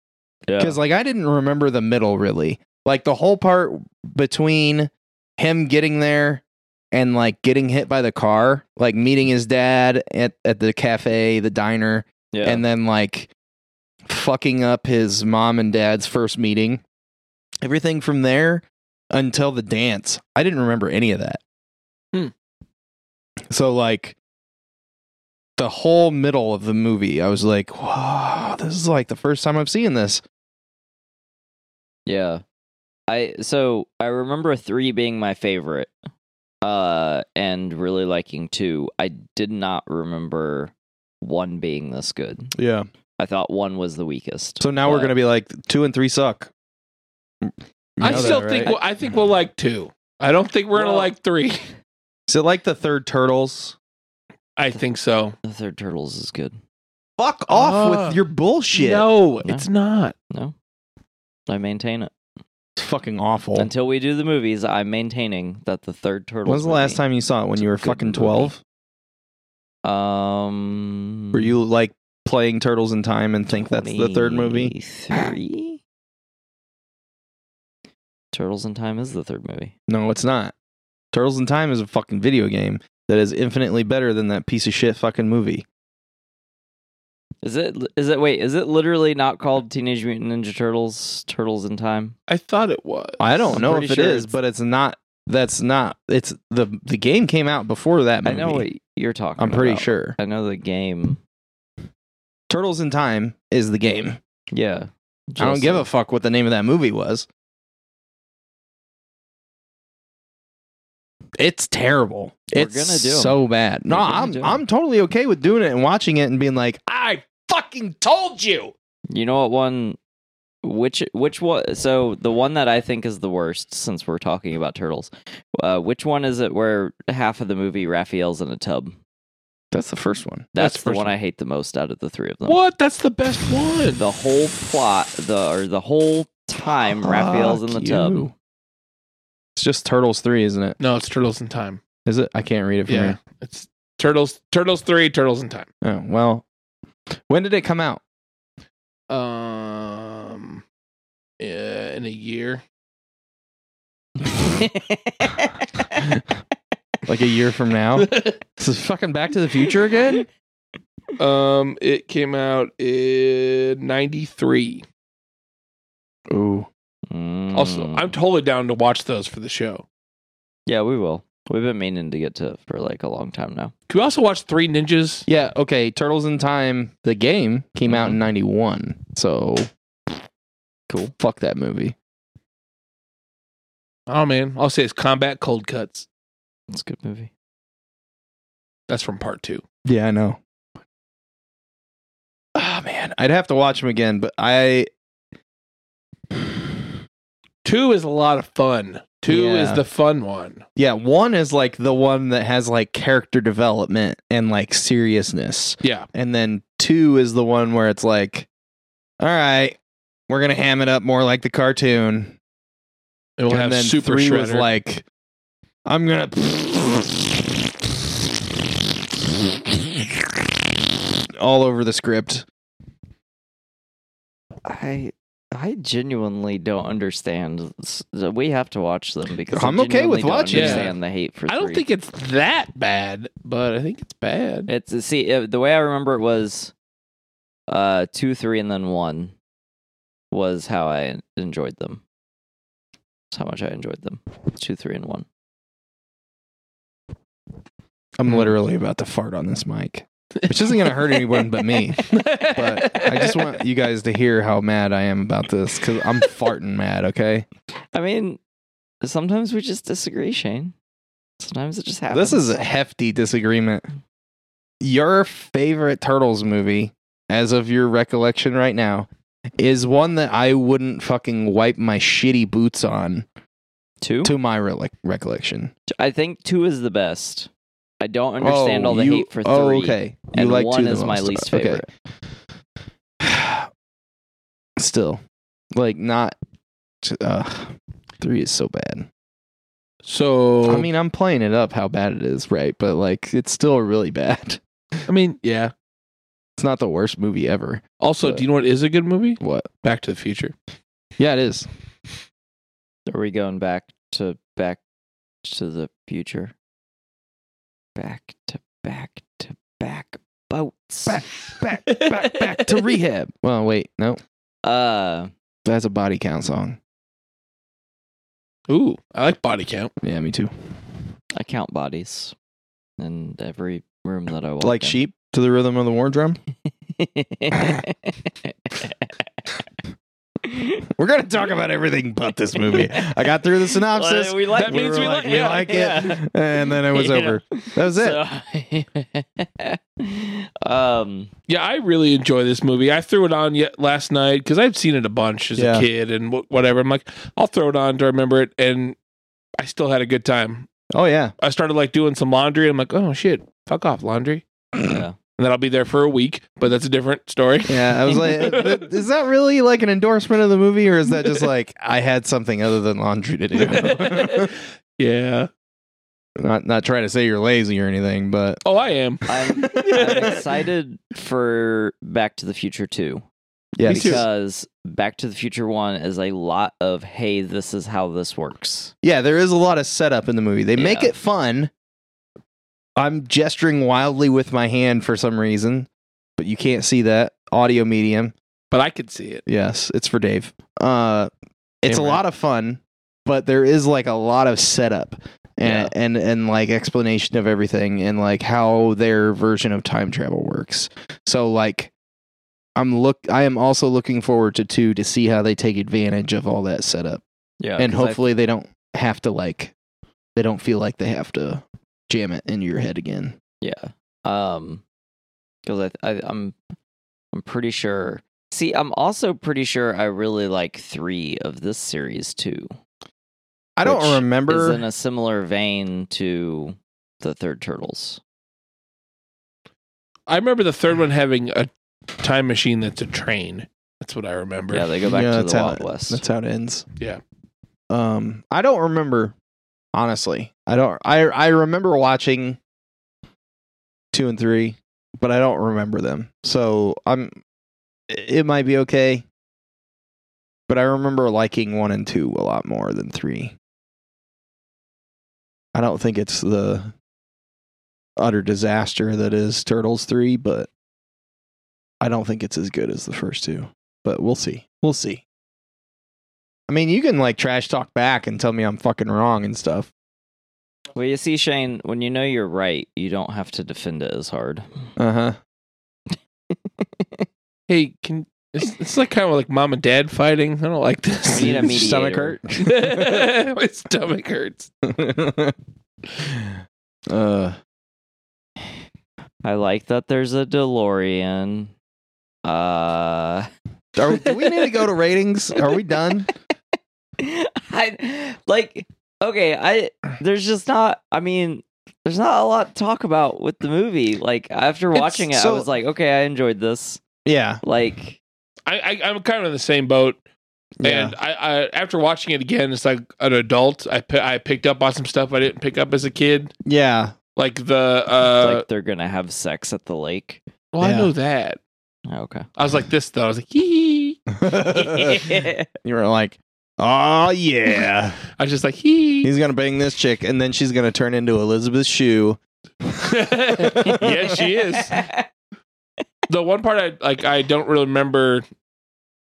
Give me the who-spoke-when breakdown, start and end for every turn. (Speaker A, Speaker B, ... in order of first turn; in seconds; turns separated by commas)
Speaker A: 0.5-0.8, Speaker B: 0.6-13.3, Speaker A: 12.3-12.6, Speaker B: 14.0-16.8, Speaker B: 17.6-21.4, Speaker B: 23.5-24.1, Speaker B: 25.6-30.2, Speaker A: 32.0-32.4, Speaker A: 33.1-35.9, Speaker A: 36.6-42.5, Speaker B: 42.5-42.9, Speaker A: 43.2-45.1, Speaker B: 44.6-46.5, Speaker B: 47.4-48.7, Speaker C: 48.0-51.6, Speaker A: 48.0-48.8, Speaker A: 50.7-51.1, Speaker B: 52.3-53.8, Speaker C: 54.6-55.3, Speaker A: 55.4-56.6, Speaker B: 57.2-59.1, Speaker C: 57.5-58.2, Speaker C: 58.7-60.1, Speaker A: 60.3-60.5, Speaker A: 61.5-62.1, Speaker B: 62.8-63.7, Speaker A: 63.5-67.0, Speaker B: 66.5-68.6, Speaker A: 67.6-68.5, Speaker A: 69.8-71.5, Speaker B: 71.3-74.7, Speaker A: 73.5-75.8, Speaker A: 78.3-79.7, Speaker B: 79.9-80.5, Speaker B: 81.1-85.6, Speaker A: 87.4-92.2, Speaker C: 92.3-93.2, Speaker B: 93.2-98.7, Speaker A: 93.5-94.3, Speaker A: 98.2-101.2, Speaker B: 99.4-100.2, Speaker B: 102.5-104.2, Speaker A: 104.5-105.9, Speaker B: 105.4-107.3, Speaker B: 111.4-118.7, Speaker A: 112.5-113.4, Speaker A: 113.9-114.6, Speaker A: 119.1-120.0, Speaker A: 120.6-128.9, Speaker B: 129.7-130.5, Speaker A: 130.5-132.6, Speaker C: 130.6-131.1, Speaker C: 132.4-134.0, Speaker A: 134.0-138.3, Speaker B: 137.0-138.3, Speaker B: 139.6-140.8, Speaker C: 140.8-141.8, Speaker B: 142.1-143.2, Speaker C: 142.9-145.7, Speaker B: 145.8-146.4, Speaker B: 147.3-148.0, Speaker C: 149.1-150.6, Speaker C: 151.4-152.6, Speaker A: 154.2-156.1, Speaker B: 157.1-160.3, Speaker C: 158.0-158.4, Speaker C: 161.2-164.8, Speaker B: 166.3-166.7, Speaker A: 167.1-168.2, Speaker C: 167.5-169.8, Speaker A: 170.7-173.7, Speaker C: 173.9-175.2, Speaker B: 175.3-179.7, Speaker A: 177.9-178.2, Speaker A: 180.9-181.1, Speaker B: 181.2-181.9, Speaker C: 184.1-186.1, Speaker A: 186.7-187.3, Speaker C: 188.9-189.6, Speaker B: 189.8-190.4, Speaker B: 192.6-194.9, Speaker C: 197.6-200.6, Speaker B: 199.3-199.8, Speaker B: 200.8-208.5, Speaker B: 209.2-209.8, Speaker B: 210.3-212.3, Speaker C: 213.4-214.7, Speaker B: 213.5-215.0, Speaker B: 215.8-217.5, Speaker B: 219.8-220.1, Speaker B: 221.4-222.4, Speaker A: 224.6-231.8, Speaker B: 229.5-230.9, Speaker C: 230.5-230.9, Speaker C: 231.5-234.7, Speaker A: 234.7-236.7, Speaker A: 237.7-239.3, Speaker A: 240.3-242.0, Speaker A: 243.3-245.3, Speaker B: 248.2-257.4, Speaker C: 252.0-253.5, Speaker A: 257.9-258.4, Speaker A: 259.0-260.7, Speaker A: 261.4-262.7, Speaker B: 262.1-263.8, Speaker B: 264.8-269.1, Speaker B: 269.6-273.2, Speaker A: 274.0-274.3, Speaker B: 274.2-275.7, Speaker A: 275.9-277.5, Speaker A: 278.0-281.9, Speaker B: 278.4-281.8, Speaker B: 283.2-283.7, Speaker B: 284.8-285.2, Speaker B: 285.7-286.4, Speaker B: 287.0-289.1, Speaker C: 290.0-290.9, Speaker B: 290.6-295.0, Speaker C: 295.1-295.7, Speaker B: 296.6-298.4, Speaker C: 298.0-300.5, Speaker B: 299.4-299.7, Speaker B: 301.2-301.7, Speaker A: 303.1-304.8, Speaker A: 305.4-306.5, Speaker A: 307.9-311.2, Speaker B: 311.1-314.2, Speaker C: 311.9-312.9, Speaker A: 314.6-315.3, Speaker B: 315.6-316.8, Speaker C: 318.7-319.9, Speaker B: 320.0-320.5, Speaker A: 321.4-322.3, Speaker A: 323.0-325.0, Speaker B: 324.6-326.4, Speaker A: 327.0-329.1, Speaker A: 330.4-330.8, Speaker B: 330.9-338.2, Speaker A: 333.9-336.2, Speaker C: 334.5-335.9, Speaker A: 336.9-341.3, Speaker C: 341.5-348.9, Speaker B: 345.6-345.9, Speaker C: 349.6-350.7, Speaker B: 350.9-351.3, Speaker C: 351.4-354.4, Speaker A: 354.8-355.2, Speaker C: 355.4-358.9, Speaker B: 357.7-364.5, Speaker C: 363.5-365.5, Speaker B: 366.4-368.6, Speaker C: 368.6-370.4, Speaker A: 369.3-373.2, Speaker B: 369.4-370.4, Speaker B: 373.8-374.2, Speaker A: 373.9-378.9, Speaker C: 373.9-374.2, Speaker B: 379.0-381.7, Speaker A: 380.8-381.1, Speaker B: 383.0-388.3, Speaker C: 388.7-389.4, Speaker B: 389.5-391.3, Speaker B: 391.8-401.9, Speaker C: 391.9-392.2, Speaker B: 402.8-407.2, Speaker A: 407.6-408.2, Speaker B: 407.8-409.7, Speaker B: 410.4-413.4, Speaker A: 413.6-414.8, Speaker A: 415.6-416.6, Speaker A: 417.3-422.7, Speaker B: 423.8-424.8, Speaker A: 423.8-428.2, Speaker C: 430.3-434.9, Speaker A: 434.7-436.2, Speaker B: 435.0-436.9, Speaker B: 437.9-439.3, Speaker B: 439.9-442.6, Speaker B: 444.1-447.3, Speaker B: 448.1-449.2, Speaker B: 450.7-453.5, Speaker B: 455.7-456.9, Speaker B: 458.2-460.7, Speaker B: 462.0-465.2, Speaker B: 466.7-469.9, Speaker A: 470.9-474.6, Speaker B: 475.0-475.4, Speaker A: 476.8-477.2, Speaker C: 477.7-481.8, Speaker A: 481.3-482.4, Speaker B: 481.3-483.3, Speaker C: 482.6-484.7, Speaker B: 484.8-485.6, Speaker B: 486.2-486.5, Speaker B: 487.1-487.6, Speaker A: 489.4-491.7, Speaker A: 492.4-493.5, Speaker B: 493.9-496.3, Speaker A: 494.1-494.7, Speaker A: 497.2-507.0, Speaker B: 504.9-505.7, Speaker B: 507.2-507.6, Speaker A: 507.6-508.2, Speaker C: 508.6-510.2, Speaker B: 510.8-511.1, Speaker C: 510.8-516.5, Speaker B: 516.6-517.2, Speaker C: 517.4-518.6, Speaker A: 518.3-520.4, Speaker C: 520.7-521.6, Speaker B: 520.8-521.1, Speaker A: 522.1-522.5, Speaker C: 522.6-524.3, Speaker B: 524.4-528.2, Speaker A: 524.7-525.6, Speaker C: 528.4-529.3, Speaker B: 529.2-532.4, Speaker C: 533.0-535.0, Speaker B: 533.5-534.3, Speaker A: 534.8-535.2, Speaker C: 536.3-538.4